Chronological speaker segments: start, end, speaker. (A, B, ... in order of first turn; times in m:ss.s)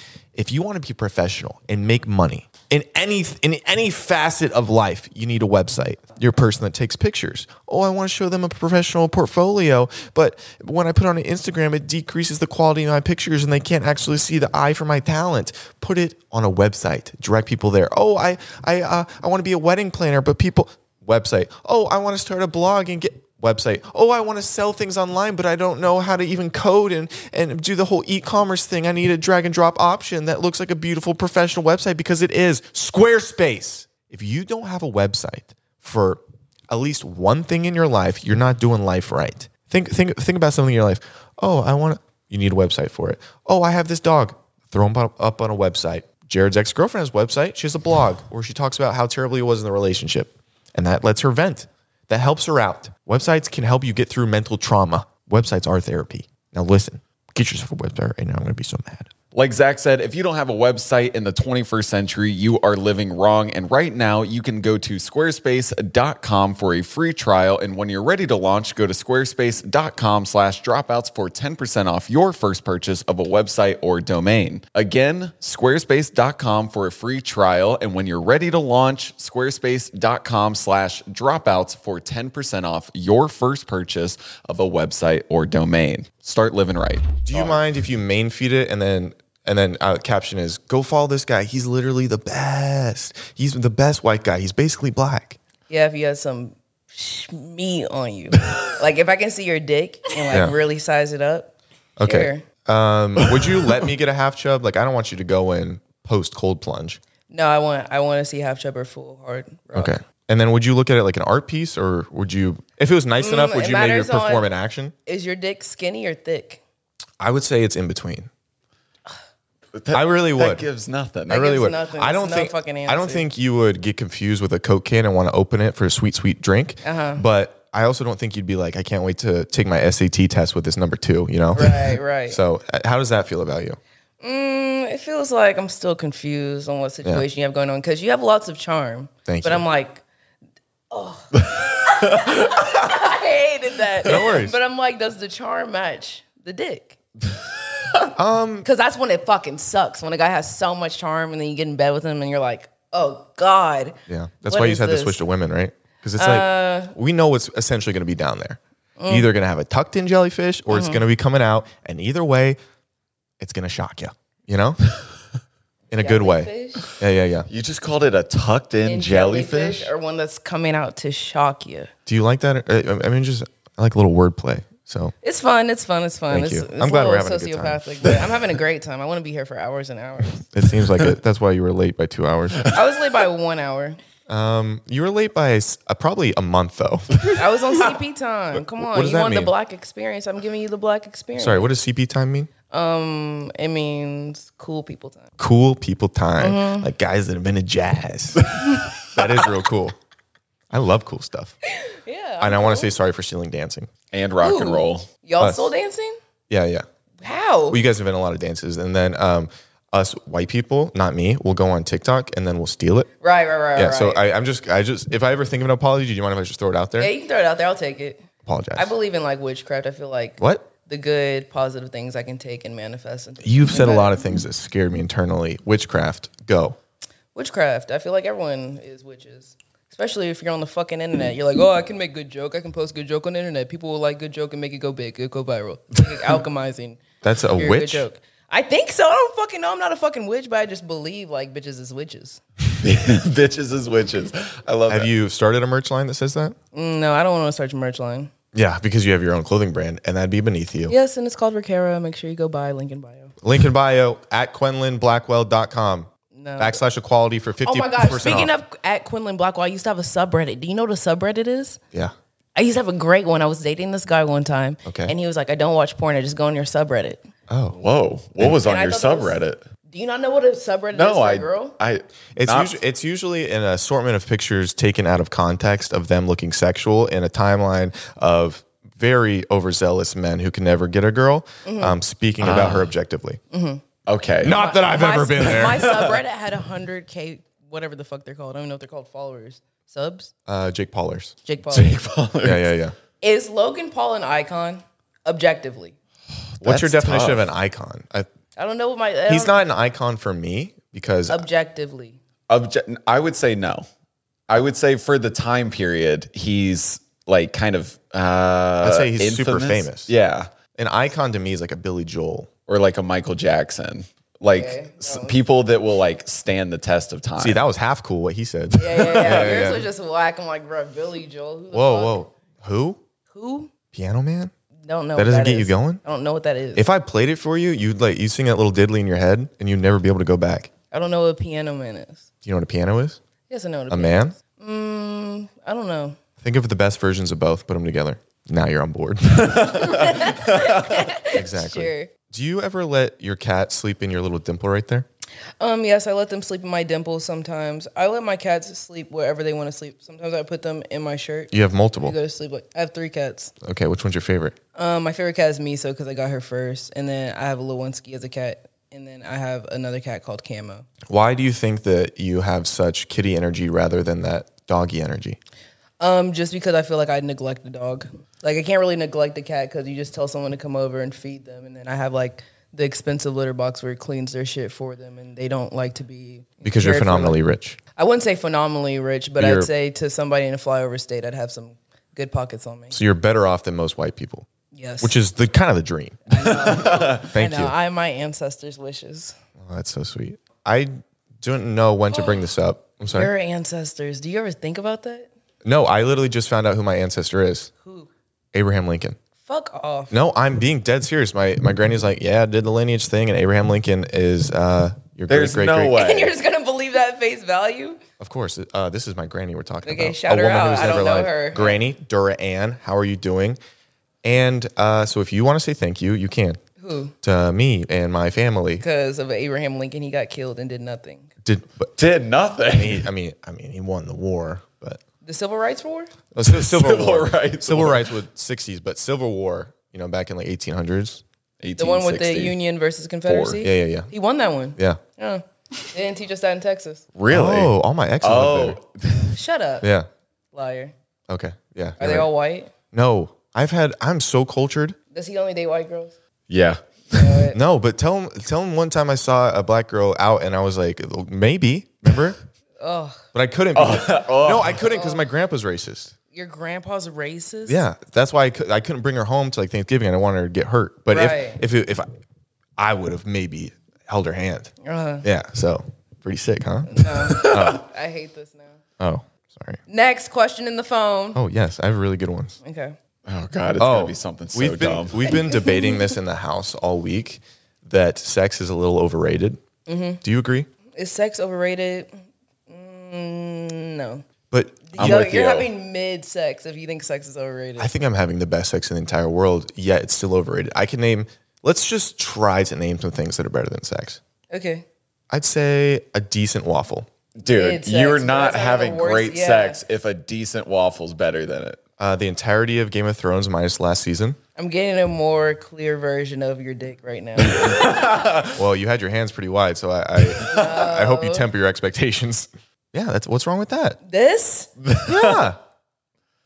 0:00.4-0:59.1 A
0:59.3-1:27.6 B
1:27.2-1:35.4 A
1:35.7-1:42.4 C
1:42.0-1:47.0 A
1:47.3-1:50.0 C
1:49.8-1:54.9 A
1:53.2-1:54.5 C
1:55.1-1:56.6 C
1:57.2-1:58.3 A
1:59.7-2:01.5 B
1:59.9-2:00.7 A
2:01.3-2:13.8 A
2:01.3-2:03.2 C
2:06.8-2:07.2 C
2:11.5-2:12.4 C
2:14.2-2:20.0 C
2:19.3-2:19.6 A
2:20.9-2:27.0 C
2:22.0-2:22.7 B
2:24.0-2:24.6 A
2:28.2-2:28.7 A
2:28.6-2:34.0 C
2:34.1-2:42.6 A
2:34.5-2:35.2 C
2:36.2-2:37.0 C
2:39.0-2:39.3 C
2:40.7-2:41.0 C
2:43.4-2:44.8 A
2:45.9-2:47.5 A
2:46.0-2:46.9 C
2:47.5-2:49.9 B
2:48.9-2:51.9 C
2:52.1-2:55.1 A
2:55.2-3:00.5 C
2:56.3-2:57.8 A
3:00.5-3:02.7 A
3:02.6-3:04.0 C
3:04.3-3:07.3 A
3:07.4-3:11.7 C
3:08.8-3:09.5 A
3:11.4-3:12.5 A
3:12.7-3:15.3 C
3:15.4-3:20.0 A
3:16.4-3:16.9 C
3:20.7-3:21.6 A
3:21.8-3:22.9 C
3:22.4-3:23.9 A
3:24.1-3:25.1 B
3:24.4-3:26.2 C
3:25.4-3:25.7 A
3:26.5-3:26.9 A
3:27.2-3:27.8 C
3:27.7-3:33.1 A
3:33.2-3:34.2 C
3:33.8-3:37.1 A
3:37.0-3:38.2 C
3:38.5-3:38.9 A
3:38.8-3:44.2 C
3:40.4-3:40.7 A
3:43.4-3:46.8 A
3:47.4-3:57.0 C
3:57.2-3:58.1 A
3:57.6-4:02.4 C
4:02.8-4:05.1 B
4:04.9-4:06.6 A
4:06.7-4:08.3 C
4:08.5-4:10.9 A
4:10.9-4:13.3 C
4:13.4-4:18.5 A
4:16.3-4:16.8 C
4:17.6-4:21.8 C
4:22.6-4:27.2 C
4:24.8-4:25.1 A
4:27.5-4:27.8 A
4:27.7-4:29.6 B
4:28.5-4:31.7 C
4:30.9-4:32.8 B
4:32.4-4:43.4 A
4:41.6-4:42.0 C
4:42.4-4:42.9 B
4:43.5-4:43.8 C
4:44.1-4:44.6 B
4:44.4-4:45.9 A
4:44.5-4:50.3 C
4:45.7-4:46.2 B
4:50.5-4:51.4 A
4:51.4-4:52.0 C
4:51.7-4:52.8 B
4:52.4-4:53.0 A
4:53.2-4:56.0 C
4:56.6-4:57.5 B
4:56.6-4:58.3 A
4:58.6-4:59.6 C
4:59.3-5:01.4 A
5:01.3-5:02.2 C
5:02.5-5:03.9 B
5:04.5-5:10.5 B
5:08.8-5:10.1 A
5:10.8-5:12.5 A
5:12.7-5:17.6 B
5:14.5-5:15.4 C
5:17.4-5:19.9 A
5:18.8-5:22.2 C
5:19.0-5:19.6 B
5:21.7-5:23.0 A
5:23.3-5:23.7 C
5:23.9-5:24.5 A
5:24.9-5:26.8 C
5:25.2-5:26.0 A
5:26.8-5:30.7 A
5:30.9-5:32.3 C
5:32.4-5:33.2 A
5:33.5-5:36.2 C
5:33.9-5:34.3 A
5:36.4-5:40.2 A
5:39.9-5:42.1 C
5:40.5-5:40.7 B
5:41.3-5:45.1 A
5:45.6-5:53.5 C
5:51.5-5:52.2 A
5:53.6-5:54.6 A
5:54.8-6:00.9 C
6:01.1-6:05.4 A
6:06.0-6:17.4 C
6:16.6-6:17.8 A
6:18.0-6:23.0 C
6:19.4-6:19.7 A
6:22.9-6:24.5 A
6:24.7-6:25.2 C
6:25.0-6:27.7 A
6:26.3-6:29.4 C
6:26.6-6:27.3 B
6:29.6-6:33.3 A
6:32.1-6:32.5 C
6:33.1-6:35.3 C
6:35.6-6:37.7 A
6:37.8-6:38.1 C
6:38.5-6:39.2 A
6:39.5-6:40.2 C
6:40.1-6:46.0 A
6:45.3-6:46.3 B
6:45.9-6:48.0 C
6:48.2-6:53.6 A
6:49.8-6:51.8 C
6:54.2-6:56.6 A
6:56.8-6:57.2 C
6:57.2-6:58.8 A
6:58.8-7:01.3 C
7:01.4-7:01.9 A
7:02.0-7:03.0 B
7:02.7-7:05.0 A
7:05.2-7:06.1 C
7:06.3-7:11.2 A
7:06.4-7:08.1 B
7:11.6-7:12.6 B
7:11.8-7:17.1 C
7:13.3-7:13.6 B
7:13.6-7:14.1 A
7:17.2-7:19.4 B
7:17.3-7:18.8 A
7:19.3-7:19.9 C
7:19.8-7:20.1 A
7:20.5-7:20.9 C
7:21.3-7:22.3 A
7:22.0-7:22.7 C
7:22.9-7:25.0 A
7:25.1-7:26.2 C
7:26.5-7:27.4 B
7:27.1-7:27.6 C
7:27.5-7:32.4 A
7:32.8-7:33.2 C
7:33.3-7:36.1 A
7:33.8-7:34.9 B
7:34.8-7:35.2 C
7:36.3-7:37.8 C
7:37.7-7:42.1 A
7:41.1-7:41.6 C
7:42.8-7:44.7 A
7:44.8-7:45.2 C
7:45.2-7:47.8 A
7:46.9-7:48.8 C
7:47.3-7:47.8 B
7:49.0-7:49.8 A
7:49.9-7:51.4 C
7:51.4-7:52.6 A
7:52.6-7:53.0 C
7:53.3-7:55.4 B
7:53.8-7:59.6 A
7:55.3-7:56.1 C
7:59.9-8:00.2 C
8:00.2-8:00.7 A
8:01.0-8:04.2 C
8:04.5-8:05.3 A
8:04.9-8:07.9 C
8:05.0-8:05.7 B
8:07.8-8:14.2 A
8:14.5-8:14.8 C
8:15.3-8:17.1 A
8:17.4-8:21.8 B
8:17.5-8:19.8 C
8:22.0-8:24.4 A
8:24.6-8:28.1 C
8:27.4-8:28.5 B
8:28.5-8:34.0 A
8:30.4-8:31.5 C
8:34.0-8:34.7 C
8:34.8-8:35.5 B
8:35.0-8:35.6 A